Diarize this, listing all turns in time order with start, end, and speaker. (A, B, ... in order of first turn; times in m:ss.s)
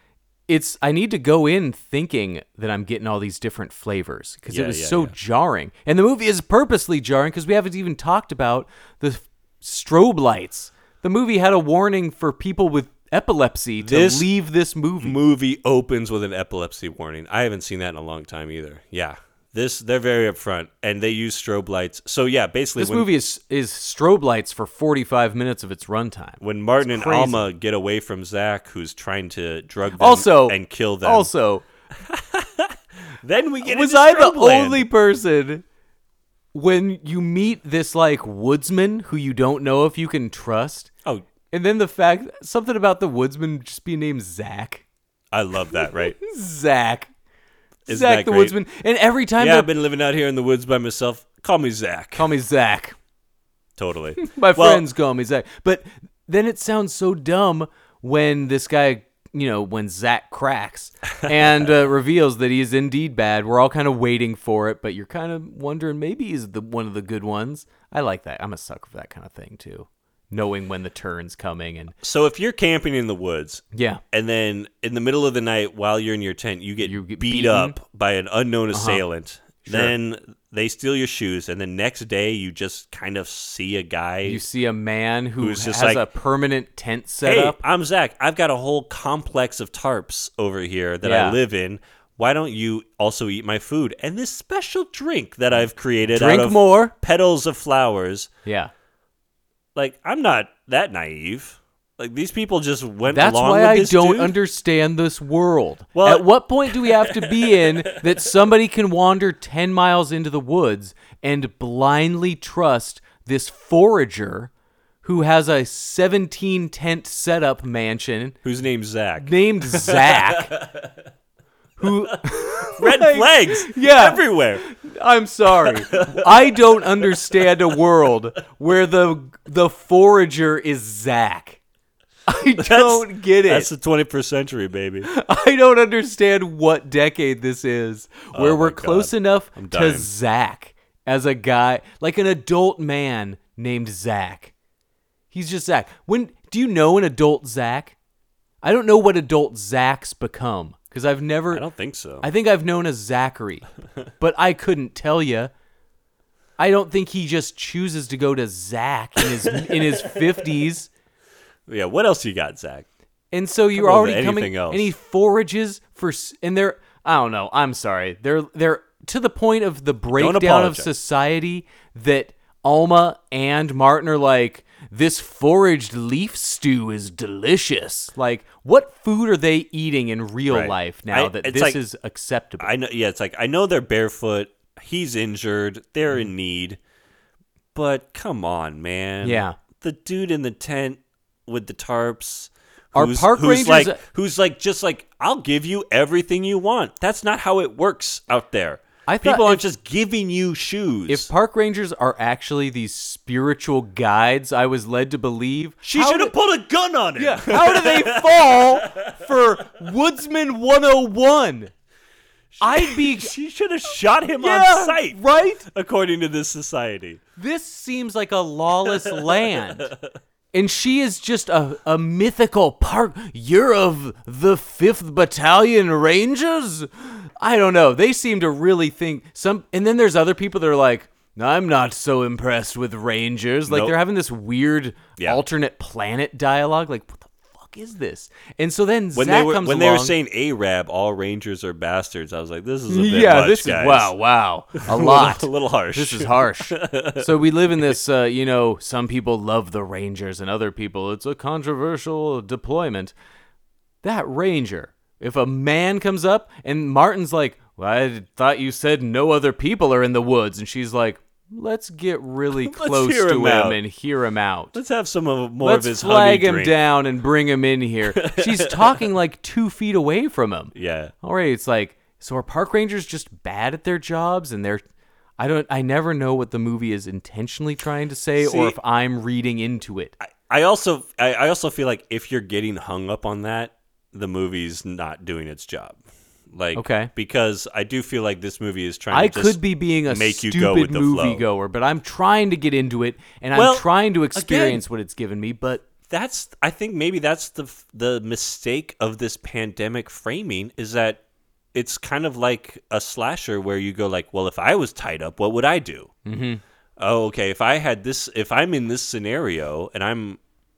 0:00.5-0:15.2 A
0:04.5-0:05.1 B
0:13.8-0:14.3 B
0:15.0-0:23.1 B
0:22.8-0:27.4 A
0:26.4-0:31.3 B
0:30.0-0:31.6 A
0:32.0-0:34.9 B
0:33.6-0:35.6 A
0:36.5-0:40.9 A
0:41.5-0:44.8 A
0:45.3-0:46.2 B
0:46.2-0:47.1 A
0:47.8-0:48.6 B
0:47.9-0:49.7 A
0:49.4-0:52.3 B
0:52.2-0:52.9 A
0:53.8-0:54.8 B
0:54.2-1:11.9 A
1:12.0-1:24.4 B
1:13.7-1:14.0 A
1:16.8-1:17.8 A
1:18.7-1:19.0 A
1:19.6-1:19.9 A
1:24.2-1:27.6 A
1:25.4-1:26.0 B
1:27.2-1:38.3 B
1:31.0-1:31.4 A
1:36.1-1:36.9 A
1:38.4-1:38.7 A
1:39.7-1:44.4 B
1:43.1-1:54.5 A
1:45.9-1:48.3 B
1:55.0-1:58.4 A
1:58.4-2:00.9 B
1:59.2-2:00.5 A
2:01.8-2:11.6 A
2:01.8-2:02.2 B
2:02.8-2:04.6 B
2:05.6-2:06.6 B
2:12.3-2:13.7 A
2:12.6-2:15.1 B
2:15.0-2:24.5 A
2:18.3-2:20.1 B
2:25.3-2:27.9 A
2:28.6-2:31.6 A
2:31.5-2:32.3 B
2:32.2-2:33.6 A
2:34.2-2:35.5 A
2:36.6-2:40.9 A
2:39.2-2:40.2 B
2:41.7-2:42.9 B
2:43.3-3:02.7 A
2:43.7-2:44.9 B
2:50.1-2:50.9 B
3:00.5-3:01.8 B
3:02.6-3:06.8 B
3:07.7-3:21.3 B
3:09.2-3:09.6 A
3:12.9-3:14.0 A
3:19.1-3:19.6 A
3:21.1-3:26.3 A
3:25.8-3:29.1 B
3:27.2-3:31.7 A
3:32.5-3:37.2 B
3:32.6-3:33.3 A
3:34.4-3:35.7 A
3:37.4-3:39.9 A
3:38.8-3:40.0 B
3:40.5-4:00.2 A
3:53.6-3:53.9 B
3:55.2-3:55.4 B
3:59.1-4:04.1 B
4:02.9-4:13.1 A
4:04.8-4:08.0 B
4:14.0-4:24.8 A
4:22.5-4:23.8 B
4:24.7-4:26.8 B
4:25.6-4:34.8 A
4:28.1-4:29.0 B
4:30.7-4:31.1 B
4:35.4-4:40.1 A
4:38.4-4:38.8 B
4:40.2-4:46.0 B
4:46.5-4:51.4 B
4:46.7-4:47.1 A
4:49.1-4:55.8 A
4:53.5-4:54.8 B
4:56.1-5:01.2 B
5:01.7-5:06.1 B
5:06.2-5:06.6 A
5:07.0-5:10.4 B